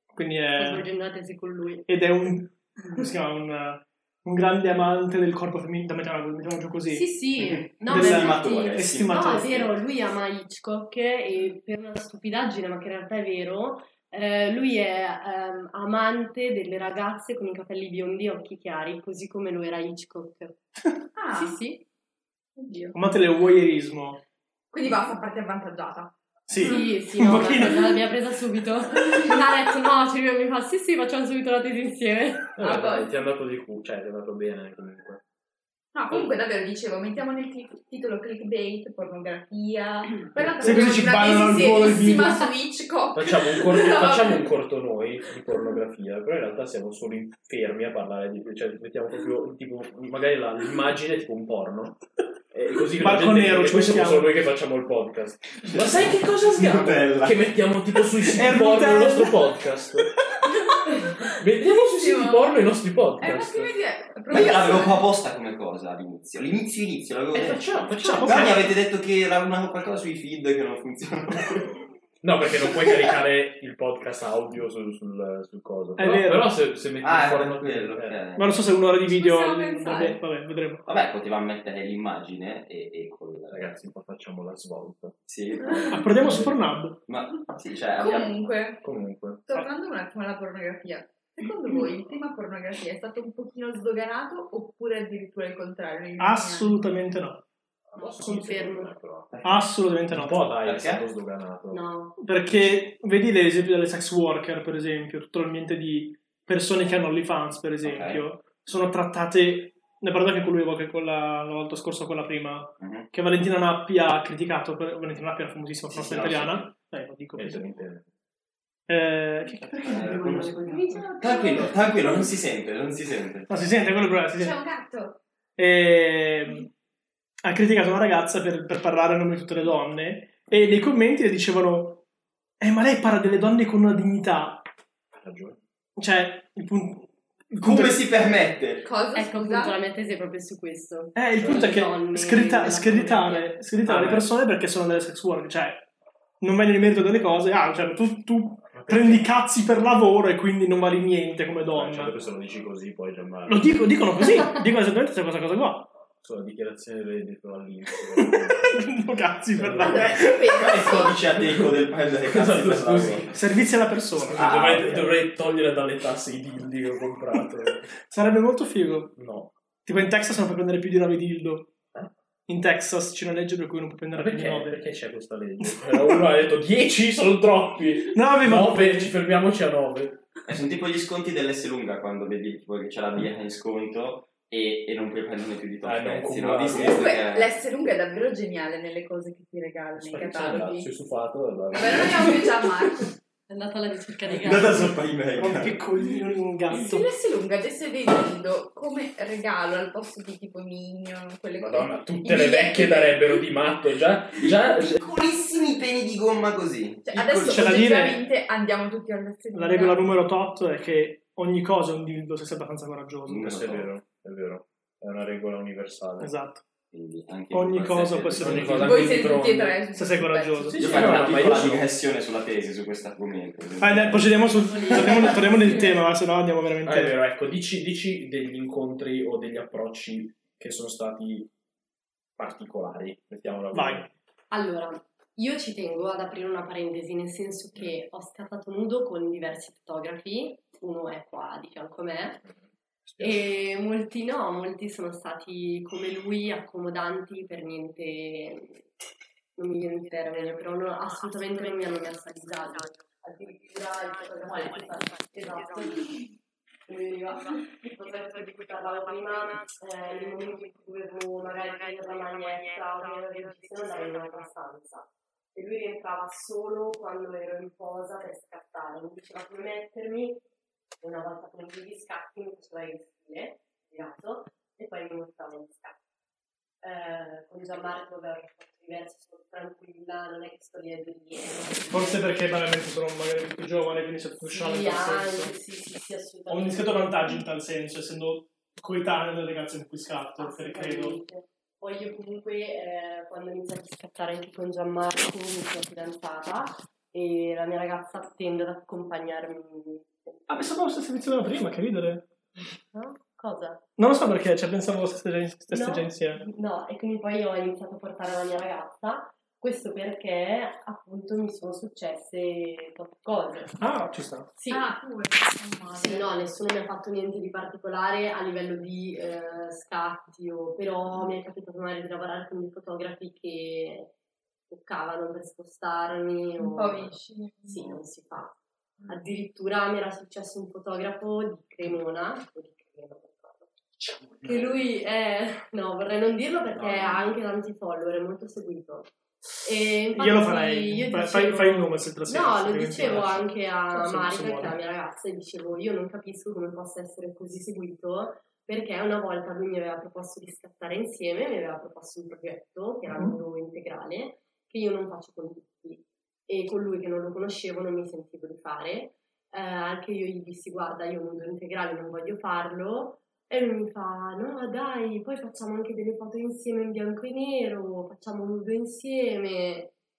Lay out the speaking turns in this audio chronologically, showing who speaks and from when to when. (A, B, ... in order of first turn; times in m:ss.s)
0:00.2-0:00.9 A
0:00.5-0:01.9 B
0:01.9-0:07.1 A
0:06.9-0:20.6 B
0:07.4-0:09.7 C
0:07.8-0:09.5 A
0:21.2-0:21.6 D
0:21.3-0:21.8 B
0:22.6-0:23.0 D
0:22.9-0:24.2 A
0:24.7-0:27.0 D
0:26.5-0:28.0 A
0:26.6-0:32.6 B
0:32.6-0:35.2 E
0:32.6-0:33.1 D
0:35.9-0:44.5 D
0:40.4-0:40.9 E
0:40.6-0:42.5 A
0:43.2-1:00.1 E
0:53.0-0:54.4 A
0:55.6-0:57.6 C
0:58.2-0:59.4 A
1:00.4-1:05.0 D
1:01.2-1:03.7 E
1:04.3-1:11.8 C
1:07.3-1:08.7 E
1:07.9-1:08.6 A
1:12.2-1:18.2 E
1:16.0-1:16.5 A
1:17.0-1:18.6 C
1:18.4-1:20.8 A
1:19.1-1:20.2 D
1:20.9-1:23.8 C
1:23.5-1:25.2 E
1:25.3-1:26.3 C
1:25.6-1:26.0 D
1:25.9-1:27.0 A
1:26.2-1:26.6 E
1:27.1-1:28.4 C
1:28.0-1:28.8 D
1:28.8-1:29.5 E
1:29.5-1:36.8 D
1:36.2-1:37.4 A
1:37.9-1:39.4 E
1:38.0-1:38.9 B
1:39.4-1:40.6 A
1:40.1-1:41.8 E
1:40.6-1:41.0 C
1:41.7-1:42.2 B
1:42.2-1:57.7 A
1:42.5-1:42.8 E
1:47.8-1:48.2 C
1:52.8-1:53.1 C
1:55.9-1:56.7 E
1:57.4-1:58.0 E
1:58.9-2:01.1 A
1:59.8-2:00.6 C
2:00.6-2:02.4 D
2:00.7-2:01.0 B
2:01.2-2:03.5 C
2:03.5-2:04.6 A
2:04.4-2:05.2 D
2:05.6-2:06.7 A
2:07.4-2:12.0 A
2:12.6-2:14.6 A
2:15.1-2:15.6 E
2:16.0-2:18.0 A
2:17.6-2:18.8 C
2:18.8-2:19.8 D
2:19.1-2:23.5 B
2:21.2-2:25.8 A
2:23.8-2:24.3 E
2:26.4-2:32.1 A
2:28.7-2:29.2 E
2:31.7-2:33.9 E
2:33.5-2:35.9 A
2:36.2-2:38.7 E
2:38.1-2:40.5 A
2:39.6-2:40.2 E
2:39.8-2:41.2 D
2:40.2-2:43.3 C
2:42.3-2:43.4 E
2:43.3-2:44.5 A
2:44.1-2:47.9 E
2:44.3-2:45.2 C
2:48.0-2:49.1 A
2:49.2-2:49.5 E
2:49.8-2:51.7 A
2:52.5-2:54.8 A
2:54.1-3:00.2 E
2:55.6-2:56.2 A
2:58.1-2:59.2 A
3:00.5-3:07.6 C
3:05.8-3:07.1 E
3:06.7-3:10.9 D
3:10.0-3:12.5 E
3:11.7-3:13.2 D
3:13.5-3:14.9 B
3:14.4-3:15.8 C
3:15.3-3:17.1 A
3:16.7-3:23.5 D
3:21.6-3:25.1 E
3:24.4-3:27.8 C
3:27.1-3:30.0 D
3:27.5-3:28.2 A
3:29.5-3:33.4 A
3:33.3-3:33.9 C
3:33.3-3:36.3 E
3:36.2-3:36.6 A
3:36.9-3:39.0 C
3:37.5-3:39.3 A
3:38.4-3:39.8 E
3:38.7-3:41.4 D
3:39.9-3:41.1 A
3:40.8-3:45.3 C
3:40.8-3:41.9 E
3:43.8-3:47.2 A
3:44.6-3:46.0 B
3:46.8-3:51.5 E
3:52.4-3:54.1 E
3:53.7-3:54.1 A
3:54.5-4:02.4 B
4:03.1-4:03.4 E
4:03.2-4:08.8 B
4:09.6-4:16.1 B
4:14.5-4:14.9 D
4:16.9-4:30.4 B
4:31.0-4:36.0 B
4:36.8-4:42.4 B
4:41.9-4:45.5 A
4:44.5-4:47.4 B
4:46.5-4:51.2 A
4:50.4-5:00.4 B
5:00.5-5:02.2 A
5:02.9-5:03.8 B
5:04.0-5:06.4 A
5:05.7-5:13.9 B
5:13.8-5:14.5 A
5:14.6-5:14.9 B
5:14.7-5:16.4 D
5:15.9-5:24.1 B
5:24.7-5:28.6 B
5:26.6-5:27.9 D
5:29.1-5:33.7 B
5:34.0-5:34.8 E
5:34.4-5:39.1 B
5:36.7-5:37.3 E
5:39.6-6:09.9 B
5:40.1-5:44.8 A
5:53.1-5:53.4 A